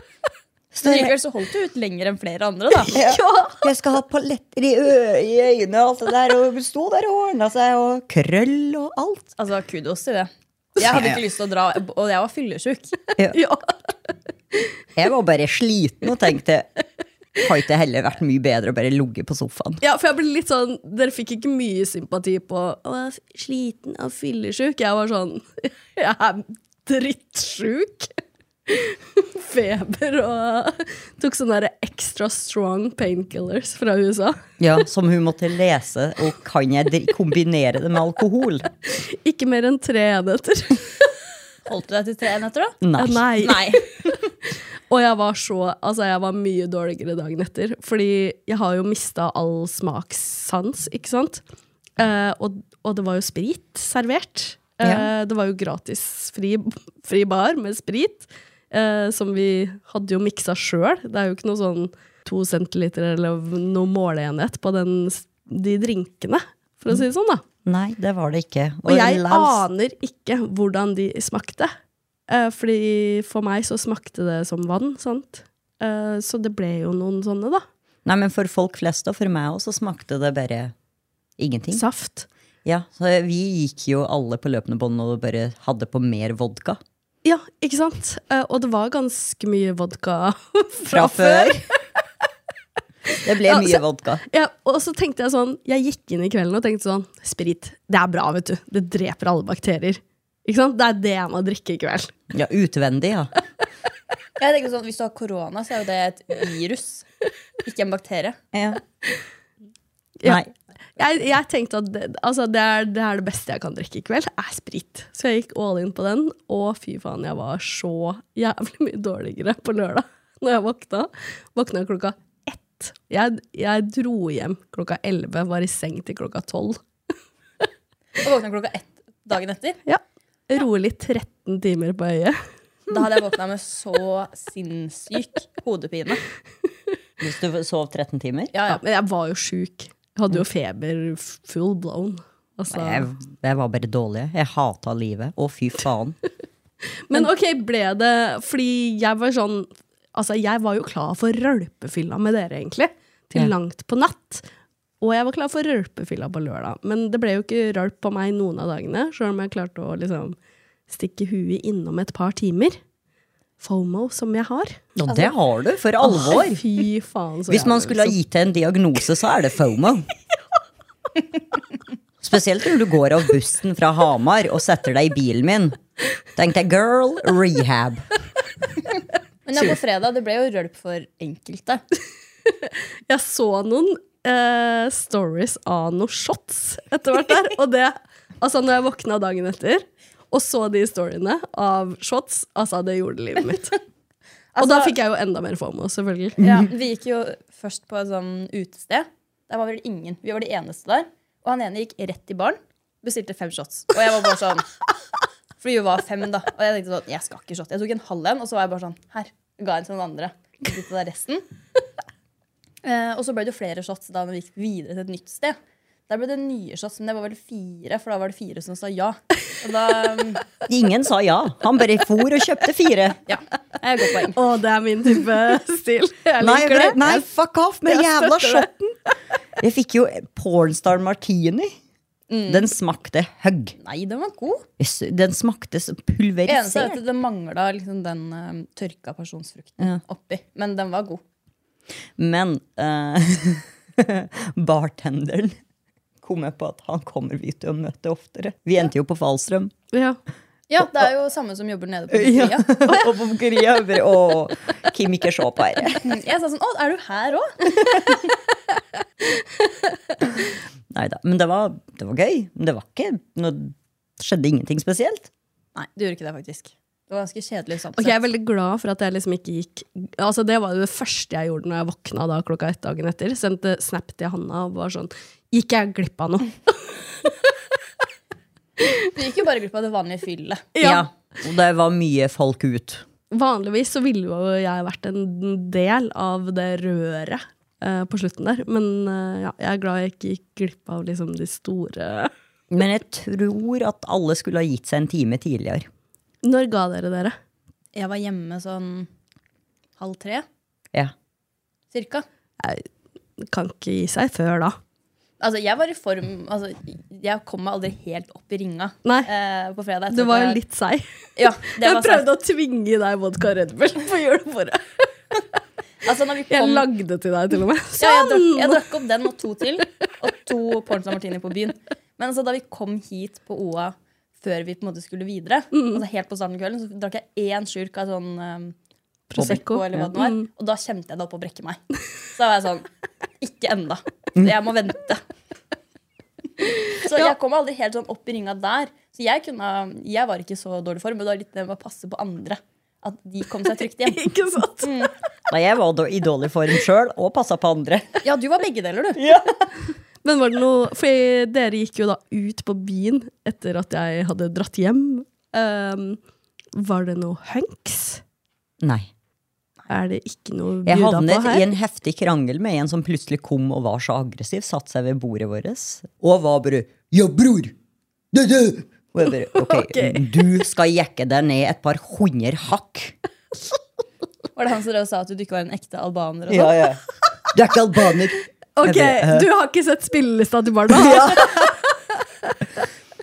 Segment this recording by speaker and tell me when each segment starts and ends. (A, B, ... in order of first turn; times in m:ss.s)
0:00.7-0:01.1 A
0:00.8-0:03.0 B
0:02.9-0:09.3 A
0:02.9-0:03.6 C
0:09.4-0:13.0 B
0:10.8-0:11.2 A
0:13.3-0:13.9 C
0:15.0-0:16.7 A
0:17.4-0:19.8 A
0:19.8-0:34.4 C
0:34.6-0:38.7 A
0:38.9-0:41.1 C
0:41.6-0:42.8 B
0:42.8-0:43.2 A
0:43.0-0:43.7 C
0:43.4-0:43.9 B
0:44.9-0:51.4 C
0:52.0-1:07.4 C
0:54.8-0:55.1 A
1:07.6-1:09.6 A
1:08.8-1:11.7 C
1:12.3-1:17.6 C
1:18.0-1:20.7 A
1:21.4-1:21.8 A
1:21.7-1:22.3 C
1:22.6-1:26.8 A
1:27.2-1:31.7 C
1:30.9-1:31.6 A
1:33.1-1:42.1 C
1:33.2-1:34.2 A
1:42.3-1:43.3 A
1:44.4-1:47.0 B
1:47.6-1:48.4 B
1:48.5-1:48.8 A
1:50.2-1:50.5 A
1:51.0-2:06.8 C
2:08.2-2:09.8 B
2:09.8-2:12.4 C
2:12.9-2:16.2 B
2:17.2-2:18.5 A
2:18.5-2:18.8 B
2:18.7-2:23.1 C
2:22.7-2:26.2 A
2:27.1-2:34.4 C
2:35.0-2:40.4 C
2:40.9-2:42.8 C
2:43.6-2:44.8 C
2:45.0-2:46.6 A
2:46.0-2:48.2 C
2:47.5-2:50.0 A
2:52.2-2:55.8 A
2:56.3-2:58.1 A
2:59.4-3:01.8 B
3:03.1-3:13.8 C
3:14.5-3:14.9 B
3:14.6-3:16.4 C
3:16.4-3:16.7 A
3:16.4-3:24.7 B
3:25.6-3:31.4 B
3:32.8-3:35.6 B
3:36.1-3:40.4 B
3:40.7-3:43.2 A
3:43.3-3:44.4 B
3:44.3-3:47.2 C
3:46.4-3:49.0 A
3:47.9-3:48.7 C
3:49.6-3:51.7 A
3:52.3-3:52.7 B
3:52.5-3:53.8 A
3:53.8-3:54.6 B
3:54.8-3:57.0 A
3:56.5-4:01.2 B
4:02.2-4:05.6 A
4:06.2-4:09.7 A
4:09.9-4:10.2 C
4:10.7-4:12.7 B
4:12.1-4:16.1 A
4:16.0-4:18.0 B
4:20.9-4:25.3 A
4:25.7-4:28.2 B
4:28.0-4:37.3 C
4:39.1-4:40.7 B
4:40.7-4:41.1 C
4:40.8-4:43.0 A
4:43.3-4:52.3 C
4:52.7-4:55.9 A
4:56.4-4:57.4 C
4:57.9-4:59.1 B
5:00.0-5:00.4 B
5:01.9-5:02.2 B
5:02.6-5:02.8 C
5:03.4-5:04.8 C
5:05.4-5:10.6 B
5:10.1-5:11.1 C
5:11.4-5:12.3 B
5:11.7-5:15.0 C
5:16.0-5:16.9 B
5:16.5-5:18.8 C
5:18.0-5:28.7 B
5:29.3-5:30.5 C
5:29.4-5:31.8 B
5:32.3-5:32.9 B
5:33.4-5:35.2 B
5:36.9-5:44.3 B
5:44.0-5:45.0 C
5:44.8-5:45.1 B
5:45.5-5:48.2 A
5:48.2-5:49.2 B
5:49.2-5:49.7 A
5:50.2-5:56.2 C
5:56.7-5:58.2 C
5:58.8-5:59.1 A
5:59.9-6:01.6 C
6:00.8-6:07.7 A
6:08.3-6:13.1 A
6:09.5-6:10.3 C
6:14.6-6:16.9 B
6:16.5-6:19.5 A
6:18.8-6:21.7 C
6:20.9-6:21.7 A